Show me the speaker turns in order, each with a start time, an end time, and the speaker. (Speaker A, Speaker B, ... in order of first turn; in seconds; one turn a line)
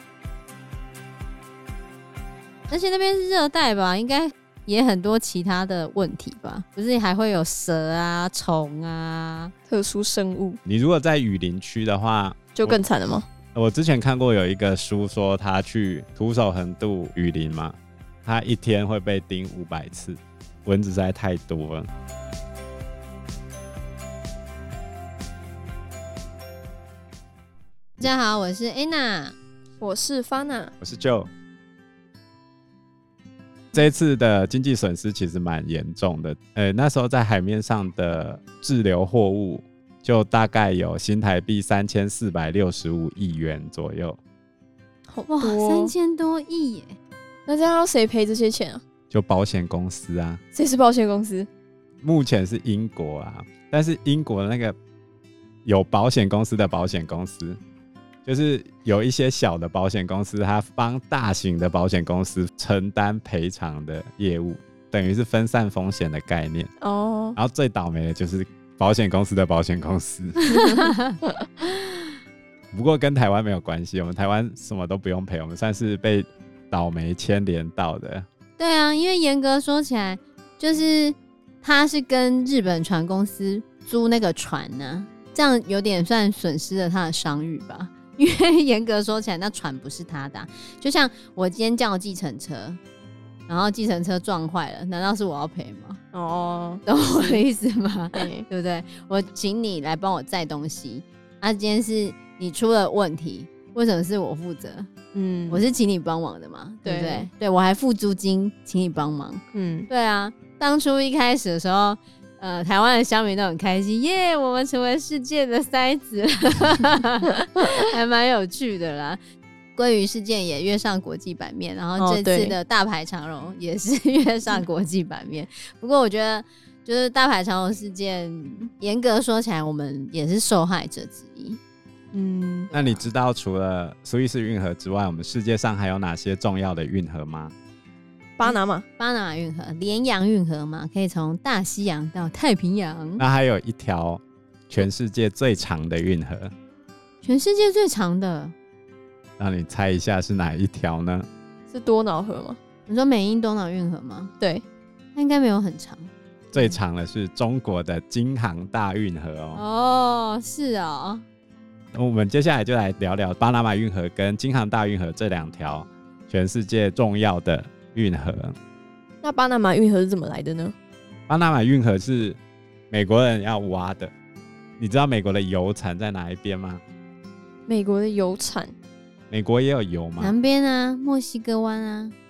Speaker A: 2.7-9.5
Speaker B: 9.7-10.6
Speaker C: 10.7-12.8
Speaker B: 12.5-13.2
Speaker C: 13.5-21.9
Speaker A: 28.0-29.4
Speaker B: 29.8-30.7
Speaker C: 30.8-31.3
Speaker C: 33.7-44.2
Speaker B: 45.1-45.9
Speaker A: 45.3-47.0
Speaker B: 47.5-48.8
Speaker C: 49.1-50.4
Speaker B: 50.5-51.5
Speaker C: 52.0-54.8
Speaker C: 55.6-57.6
Speaker C: 58.2-66.7
Speaker B: 66.8-67.4
Speaker C: 67.3-70.4
Speaker A: 70.4-72.1
Speaker C: 72.7-78.2
Speaker A: 78.6-92.8
Speaker A: 93.5-96.0
Speaker B: 96.1-97.4
Speaker A: 96.8-104.9
Speaker B: 98.1-98.5
Speaker B: 105.1-105.6
Speaker A: 105.5-119.2
Speaker B: 106.8-107.3
Speaker B: 109.5-109.9
Speaker A: 119.7-131.6
Speaker B: 122.0-122.5
Speaker B: 132.1-132.7
Speaker A: 132.7-133.1
Speaker C: 132.7-137.5
Speaker B: 138.4-138.8
Speaker A: 138.4-143.2
Speaker C: 143.2-146.5
Speaker A: 147.2-148.5
Speaker C: 149.4-151.3
Speaker B: 151.7-152.6
Speaker A: 152.9-154.3
Speaker A: 155.1-156.8
Speaker C: 156.5-159.6
Speaker A: 159.5-161.2
Speaker C: 161.9-168.6
Speaker B: 169.2-170.7
Speaker C: 171.3-172.4
Speaker C: 172.9-174.1
Speaker C: 174.8-176.8
Speaker B: 177.7-178.7
Speaker C: 179.3-180.3
Speaker A: 180.2-182.1